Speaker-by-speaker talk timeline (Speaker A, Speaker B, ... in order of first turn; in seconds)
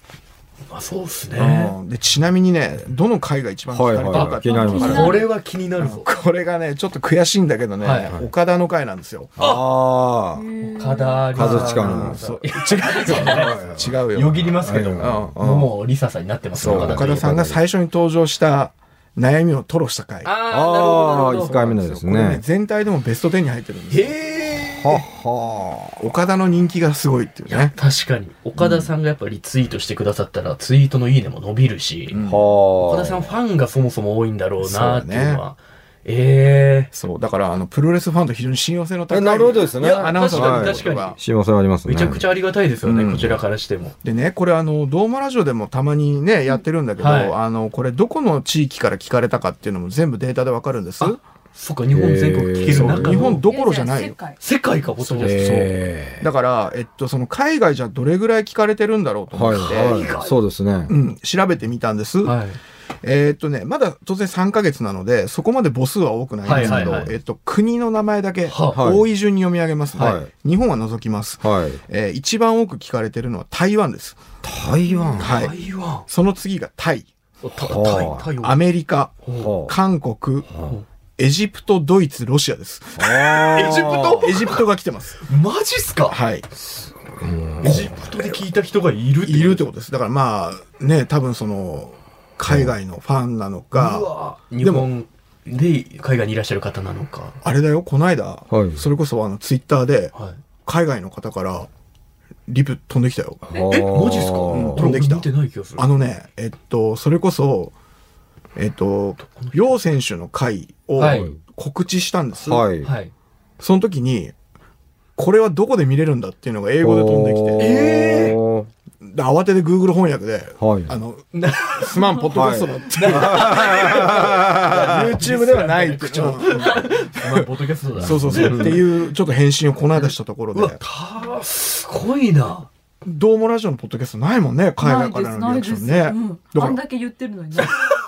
Speaker A: 0.7-1.7, 4.1-6.1, 7.8-8.1, 10.6-13.6, 14.1-17.2, 20.2-21.6, 23.9-25.1, 27.5-32.2, 32.8-36.9, 39.7-41.2, 41.9-43.9, 47.0-47.3, 51.0-53.5, 54.4-55.8, 59.5-60.3, 62.2-62.6, 66.4-67.1, 68.5-68.8, 69.9-70.2, 75.2-76.1, 77.4-78.6, 79.2-79.5, 83.5-84.7, 85.2-86.2, 87.6-89.7, 93.7-97.4, 100.1-100.4, 103.5-105.9, 109.2-109.8, 111.0-111.3, 112.8-113.1, 117.6-118.4, 121.3-122.3, 122.9-128.9, 129.9-132.7, 137.6-137.8
Speaker B: 1.3-5.2, 5.8-9.4, 11.3-15.7, 16.6-20.3, 21.3-24.1, 26.0-27.7, 32.1-32.4, 34.6-35.4, 36.9-41.2, 42.8-43.4, 44.0-51.2, 52.7-54.2, 55.0-55.7, 56.2-60.1, 60.9-62.4, 63.0-74.2, 75.2-75.5, 76.1-77.1, 78.4-80.5, 81.2-85.2, 86.1-86.5, 89.2-94.9, 97.4-100.1, 100.6-101.7, 102.5-103.5, 104.5-107.7, 108.5-112.6, 113.6-114.3, 115.2-117.7, 119.0-127.5, 128.0-130.8, 133.0-136.8
Speaker C: 3.7-5.2, 9.4-10.4, 11.3-12.2, 13.0-14.0, 14.6-15.3, 16.6-17.6, 20.5-22.4, 24.8-26.0, 32.2-33.3, 39.1-42.2, 51.9-53.4, 55.2-56.3, 59.3-60.9, 66.5-67.1, 68.7-69.0, 69.9-70.3, 71.4-71.8, 74.4-75.4, 77.5-78.3, 79.4-79.7, 83.0-84.4, 86.6-88.0, 92.5-92.7, 98.5-98.8, 103.5-104.8, 111.0-111.4, 112.4-112.9, 116.8-118.7, 120.6-120.9, 122.3-125.2, 128.0-128.8
Speaker D: 4.4-5.3, 10.4-11.2, 53.5-54.4, 134.8-137.8